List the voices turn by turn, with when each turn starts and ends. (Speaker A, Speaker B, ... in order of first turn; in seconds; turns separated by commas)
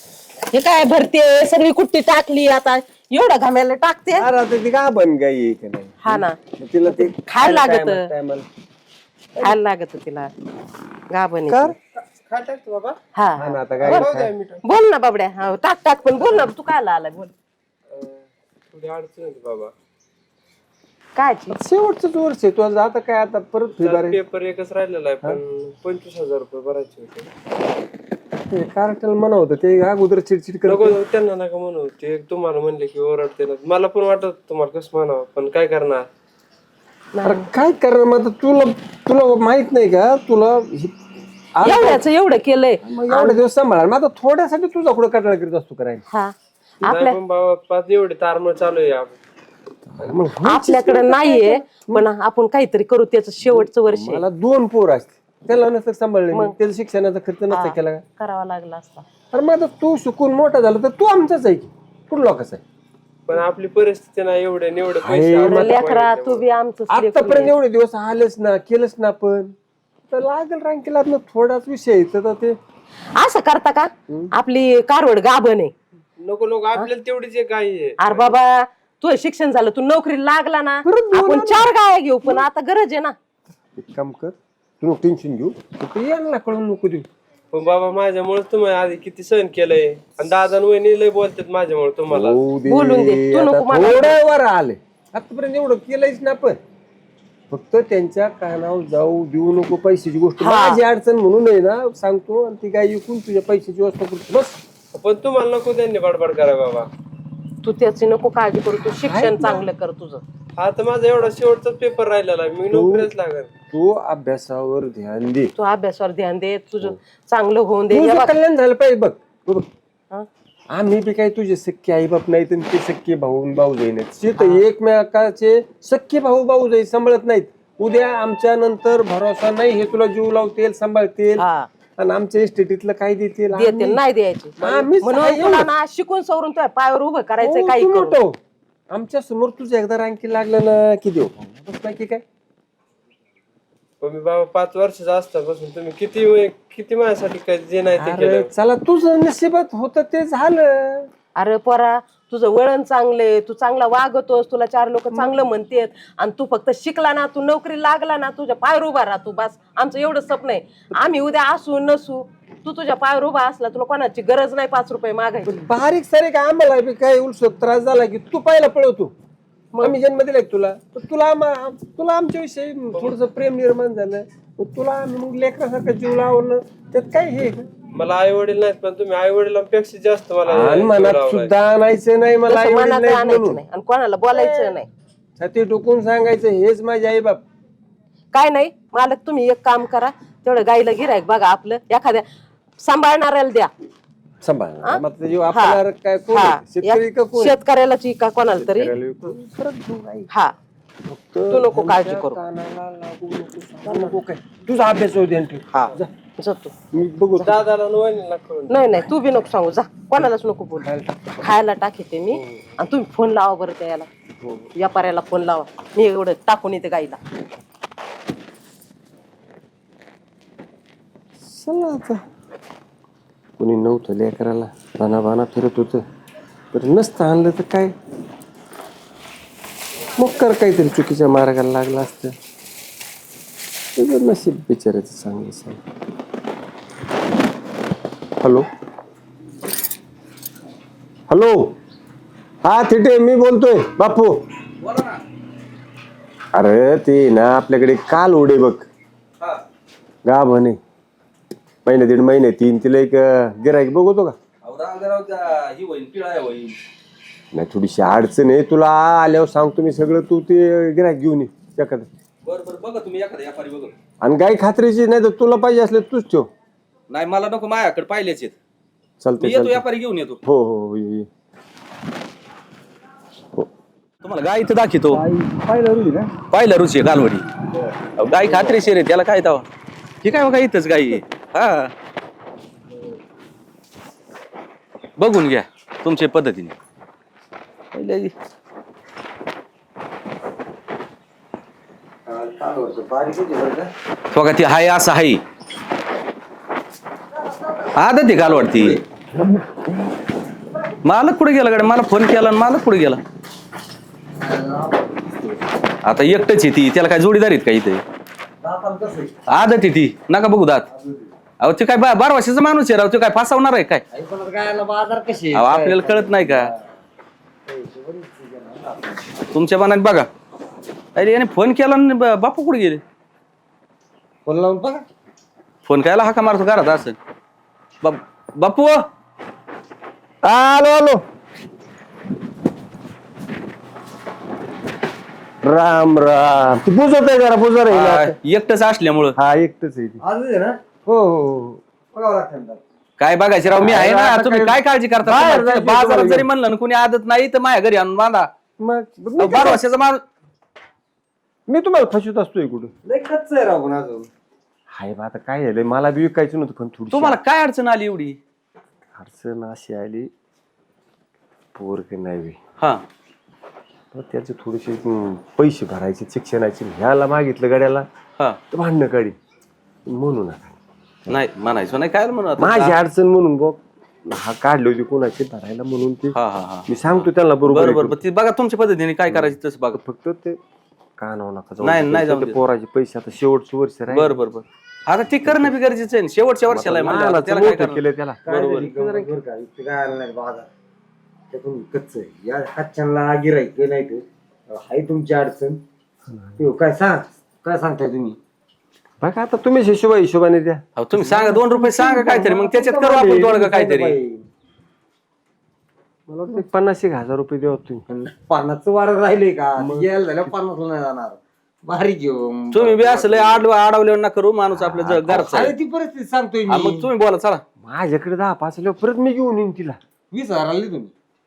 Speaker A: 0.5-4.3, Speaker B: 4.2-8.5, Speaker A: 6.0-8.1, Speaker A: 9.4-10.3, Speaker A: 11.1-11.8, Speaker B: 11.5-11.8, Speaker C: 12.1-13.0, Speaker A: 13.1-14.1, Speaker B: 13.4-14.3, Speaker C: 13.8-14.6, Speaker A: 14.6-17.3, Speaker C: 17.9-19.7, Speaker A: 21.2-21.6, Speaker B: 21.5-24.2, Speaker C: 23.8-27.3, Speaker B: 28.5-31.0, Speaker C: 30.6-36.0, Speaker A: 37.1-37.5, Speaker B: 37.2-41.0, Speaker B: 41.5-42.0, Speaker A: 41.6-43.4, Speaker B: 42.8-46.0, Speaker A: 46.1-47.2, Speaker C: 46.8-49.2, Speaker B: 50.0-52.0, Speaker A: 50.4-54.2, Speaker B: 53.5-58.0, Speaker A: 57.5-59.0, Speaker B: 59.3-62.6, Speaker C: 63.3-66.4, Speaker B: 65.0-65.9, Speaker A: 65.4-67.5, Speaker B: 66.9-69.5, Speaker B: 70.1-72.6, Speaker A: 73.1-75.7, Speaker C: 76.2-78.3, Speaker A: 78.0-83.2, Speaker B: 80.8-81.7, Speaker B: 83.8-87.1, Speaker C: 87.5-92.5, Speaker B: 92.1-96.6, Speaker A: 92.7-94.2, Speaker B: 97.5-104.6, Speaker A: 100.4-100.8, Speaker C: 104.9-106.9, Speaker A: 107.6-110.2, Speaker B: 109.1-109.6, Speaker C: 110.6-113.5, Speaker B: 112.7-113.1, Speaker B: 113.7-115.5, Speaker A: 115.5-118.3, Speaker B: 117.9-119.7, Speaker B: 120.7-131.4, Speaker A: 131.4-131.7, Speaker B: 132.0-134.0, Speaker A: 133.5-138.2, Speaker B: 134.6-135.7, Speaker B: 137.4-138.4, Speaker B: 138.9-142.2, Speaker C: 144.0-148.5, Speaker B: 148.0-151.1, Speaker A: 151.4-165.6, Speaker B: 165.4-169.1, Speaker B: 169.8-177.7, Speaker C: 177.9-181.5, Speaker B: 180.5-183.6, Speaker A: 182.5-184.9, Speaker B: 184.3-184.8, Speaker B: 185.4-187.4, Speaker A: 188.3-192.3, Speaker A: 192.8-193.7, Speaker B: 194.4-197.6, Speaker A: 194.8-195.8, Speaker A: 196.3-198.9, Speaker B: 198.5-200.3, Speaker B: 201.1-206.1, Speaker A: 201.5-202.4, Speaker A: 203.8-204.2, Speaker A: 206.4-206.7, Speaker B: 206.9-207.5, Speaker C: 207.4-209.1, Speaker A: 208.7-214.1, Speaker B: 210.8-211.2, Speaker B: 212.3-212.7, Speaker B: 214.4-214.7, Speaker A: 214.8-217.2, Speaker B: 221.4-222.2, Speaker B: 223.6-226.0, Speaker B: 226.7-227.9, Speaker B: 230.2-232.3, Speaker B: 234.0-235.8, Speaker B: 238.4-238.7, Speaker B: 241.3-241.7, Speaker B: 242.6-244.4, Speaker D: 244.8-245.2, Speaker B: 246.5-248.9, Speaker B: 250.2-250.8, Speaker B: 251.8-254.3, Speaker D: 254.6-256.7, Speaker B: 257.5-262.1, Speaker D: 262.4-263.9, Speaker B: 264.2-266.5, Speaker D: 267.1-268.5, Speaker B: 269.2-269.8, Speaker D: 269.4-270.4, Speaker B: 270.4-271.3, Speaker D: 274.2-275.2, Speaker E: 275.1-276.3, Speaker D: 276.5-277.5, Speaker D: 278.2-279.6, Speaker E: 278.4-278.8, Speaker D: 280.2-281.9, Speaker D: 285.2-286.8, Speaker D: 287.9-288.3, Speaker E: 292.3-293.9, Speaker D: 294.3-295.4, Speaker E: 297.3-299.0, Speaker D: 297.9-299.0, Speaker D: 301.0-303.2, Speaker E: 304.4-305.6, Speaker D: 306.1-308.0, Speaker E: 308.6-309.4, Speaker D: 309.5-310.9, Speaker E: 310.9-311.3, Speaker D: 311.6-314.0, Speaker E: 314.1-316.9, Speaker D: 315.5-316.7, Speaker E: 317.6-319.5, Speaker D: 319.5-320.3, Speaker D: 321.1-323.0, Speaker E: 324.4-325.0, Speaker D: 325.9-327.1, Speaker D: 328.0-329.0, Speaker B: 330.4-331.2, Speaker B: 335.6-338.4, Speaker D: 337.9-339.3, Speaker B: 339.4-340.2, Speaker E: 340.2-340.9, Speaker B: 341.0-341.8, Speaker E: 342.1-342.8, Speaker D: 343.2-348.5, Speaker E: 343.8-344.7, Speaker B: 344.1-344.5, Speaker B: 345.2-346.5, Speaker B: 348.8-349.8, Speaker D: 349.4-350.2, Speaker B: 351.7-352.9, Speaker E: 353.0-354.3, Speaker B: 354.9-357.4, Speaker D: 357.1-358.4, Speaker B: 359.1-360.3, Speaker B: 361.8-362.6, Speaker B: 364.1-368.1, Speaker B: 368.7-369.4, Speaker B: 370.1-370.8, Speaker D: 371.3-372.9, Speaker B: 372.6-378.2, Speaker D: 376.3-380.0, Speaker B: 379.3-380.6, Speaker B: 381.2-384.4, Speaker D: 381.8-382.6, Speaker D: 384.1-388.9, Speaker B: 385.4-385.7, Speaker B: 386.7-389.3, Speaker E: 388.4-390.7, Speaker E: 391.5-395.8, Speaker B: 396.3-396.6, Speaker E: 396.6-398.4, Speaker B: 399.2-402.6, Speaker D: 400.9-404.2, Speaker E: 401.2-401.4, Speaker E: 402.0-404.5, Speaker B: 406.3-408.0, Speaker E: 408.1-413.7, Speaker B: 409.8-410.1, Speaker D: 412.7-415.8, Speaker E: 414.7-417.1, Speaker D: 416.7-417.6, Speaker B: 417.8-420.0, Speaker E: 420.3-421.1